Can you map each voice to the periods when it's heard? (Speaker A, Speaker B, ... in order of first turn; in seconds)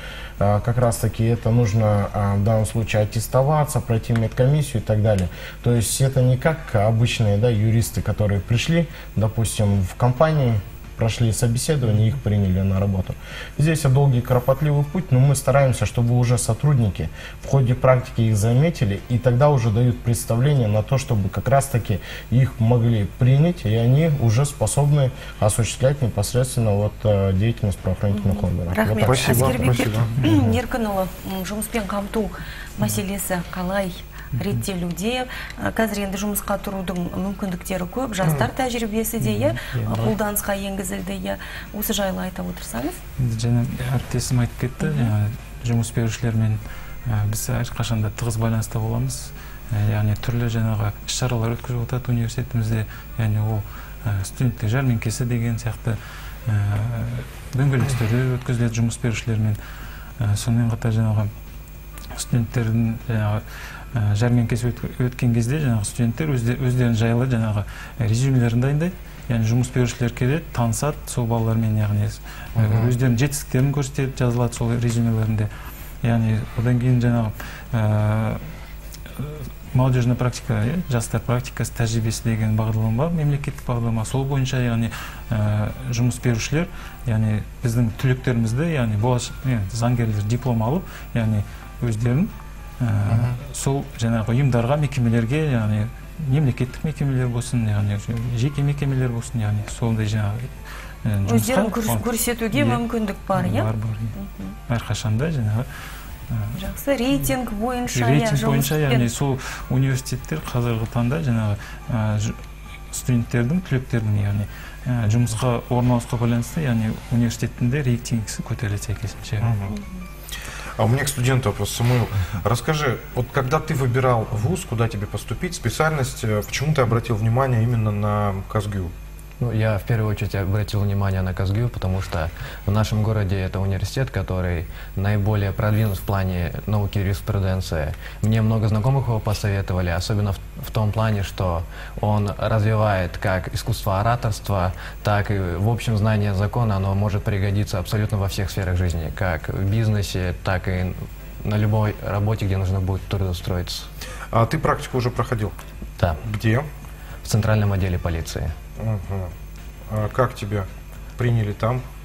Speaker A: 0.4-29.7
Speaker B: 28.1-43.0, 44.8-45.1, 101.3-104.5, 106.5-109.1
Speaker C: 29.0-30.1, 72.6-72.9, 119.4-119.7, 120.8-128.9, 154.3-155.5, 156.2-156.7, 158.8-159.3, 159.9-161.8
Speaker D: 34.4-34.6, 39.2-40.1, 43.2-59.6, 60.2-61.3, 62.1-75.5, 76.0-78.5, 79.2-100.5, 101.0-102.8, 103.3-104.2, 104.7-105.7, 106.3-106.6, 107.9-112.4, 112.9-119.5
Speaker E: 129.4-153.9, 157.2-158.6